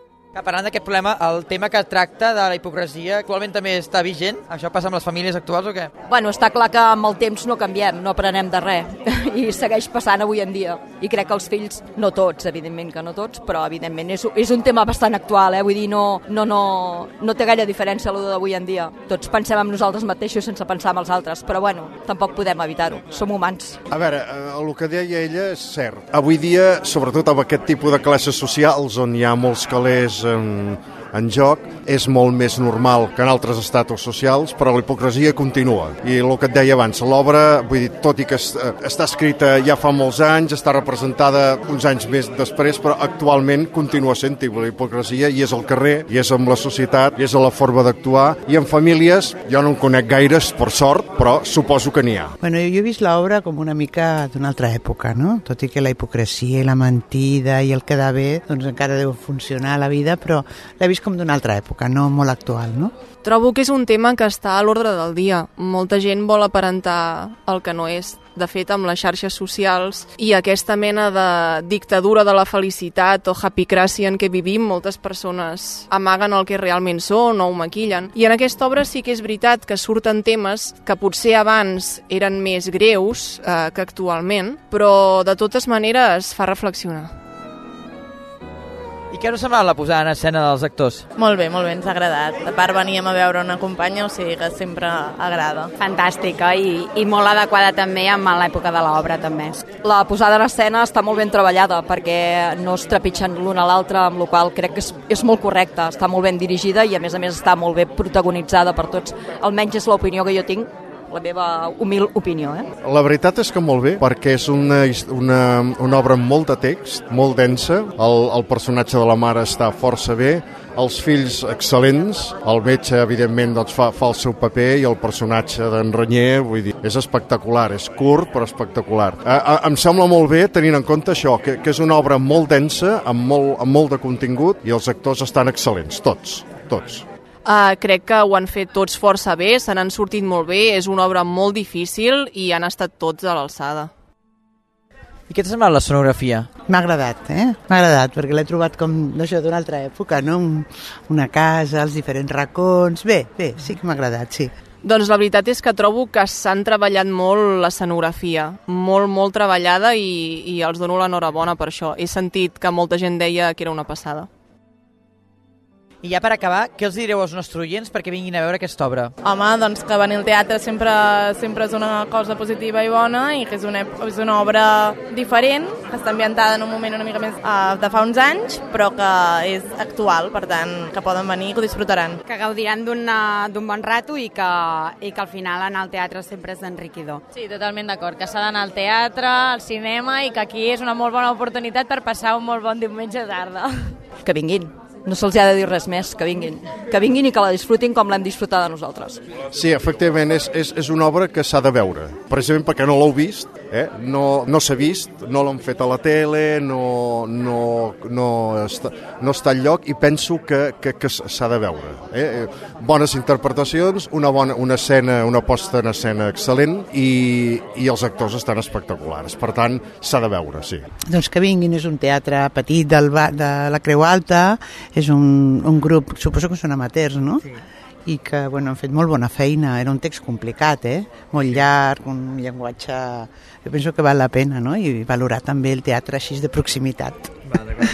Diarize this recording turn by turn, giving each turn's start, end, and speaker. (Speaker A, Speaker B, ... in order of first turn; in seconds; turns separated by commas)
Speaker A: 0.3-5.9, Speaker B: 6.1-23.8, Speaker C: 23.9-52.4, Speaker D: 52.4-62.9, Speaker E: 63.2-87.1, Speaker A: 89.1-91.0, Speaker F: 91.2-95.7, Speaker G: 95.8-99.5, Speaker B: 99.8-112.7, Speaker C: 112.8-137.1, Speaker E: 137.4-143.9, Speaker A: 145.3-146.5, Speaker D: 146.7-154.5, Speaker E: 154.8-164.3, Speaker A: 166.0-169.1, Speaker F: 169.2-182.2, Speaker G: 182.4-184.1, Speaker G: 185.0-186.9, Speaker H: 187.3-193.9, Speaker B: 194.2-199.2, Speaker C: 199.5-220.8, Speaker D: 221.1-227.4, Speaker D: 228.1-237.3